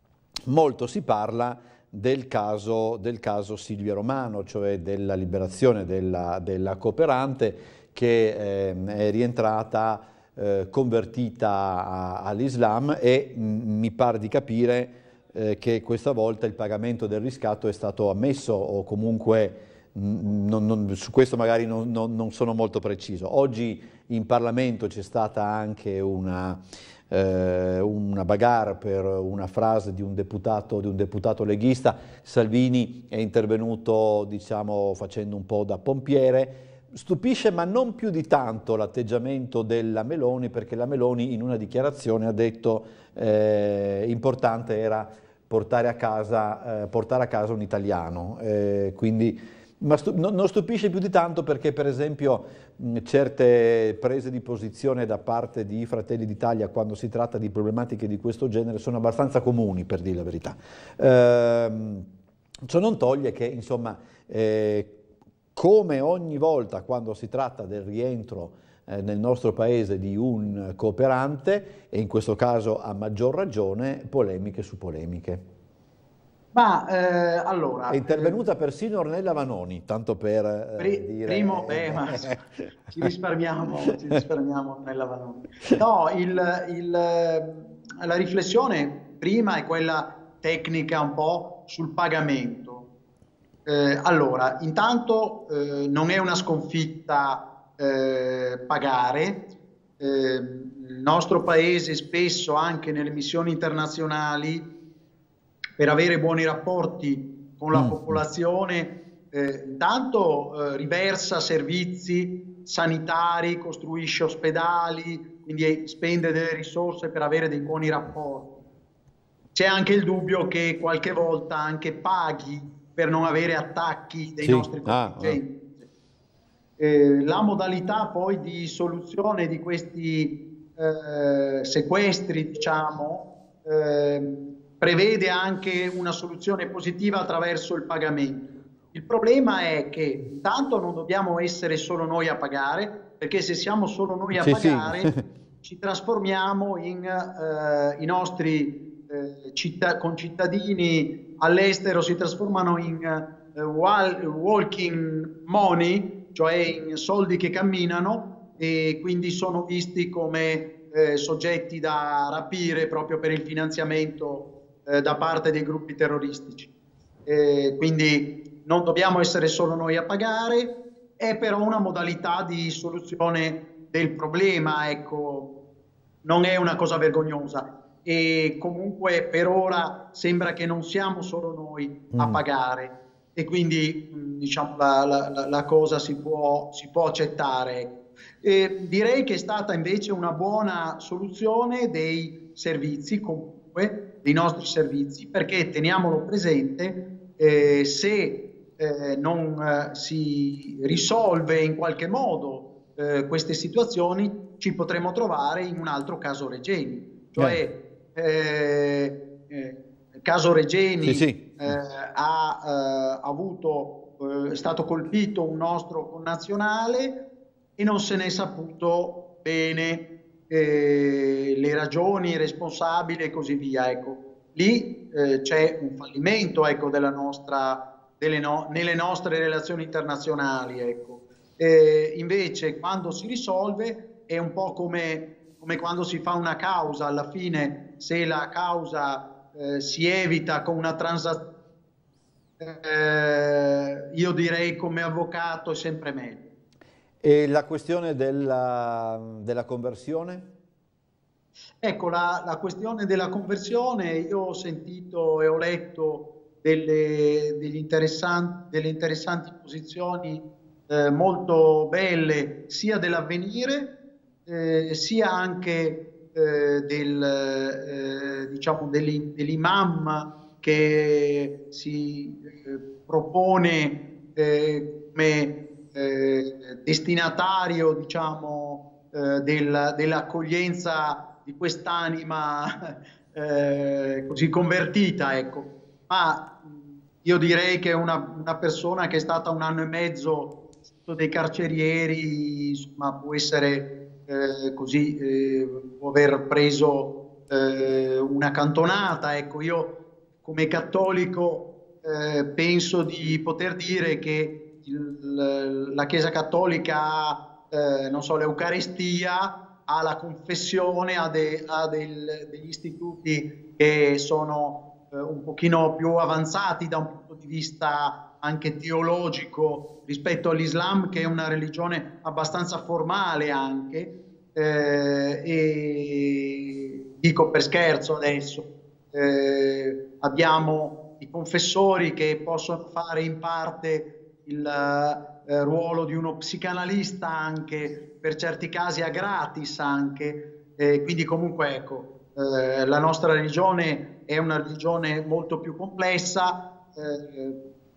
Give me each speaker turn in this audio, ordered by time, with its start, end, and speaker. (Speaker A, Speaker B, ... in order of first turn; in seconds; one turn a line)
Speaker A: 0.5-62.1
Speaker A: 62.6-65.0
Speaker A: 65.5-75.4
Speaker B: 76.5-78.3
Speaker A: 77.9-82.4
Speaker B: 80.8-82.3
Speaker B: 82.9-92.8
Speaker B: 93.7-99.4
Speaker B: 100.0-104.7
Speaker B: 105.8-118.5
Speaker A: 107.7-108.2
Speaker B: 119.5-125.8
Speaker A: 124.4-125.4
Speaker B: 126.8-145.1
Speaker A: 144.3-145.2
Speaker B: 145.6-166.7
Speaker B: 167.2-175.5
Speaker B: 176.2-217.2
Speaker A: 182.1-182.4
Speaker A: 211.0-211.5
Speaker B: 217.8-241.4
Speaker B: 242.6-246.4
Speaker A: 247.2-250.5
Speaker B: 251.8-263.9
Speaker B: 264.4-347.6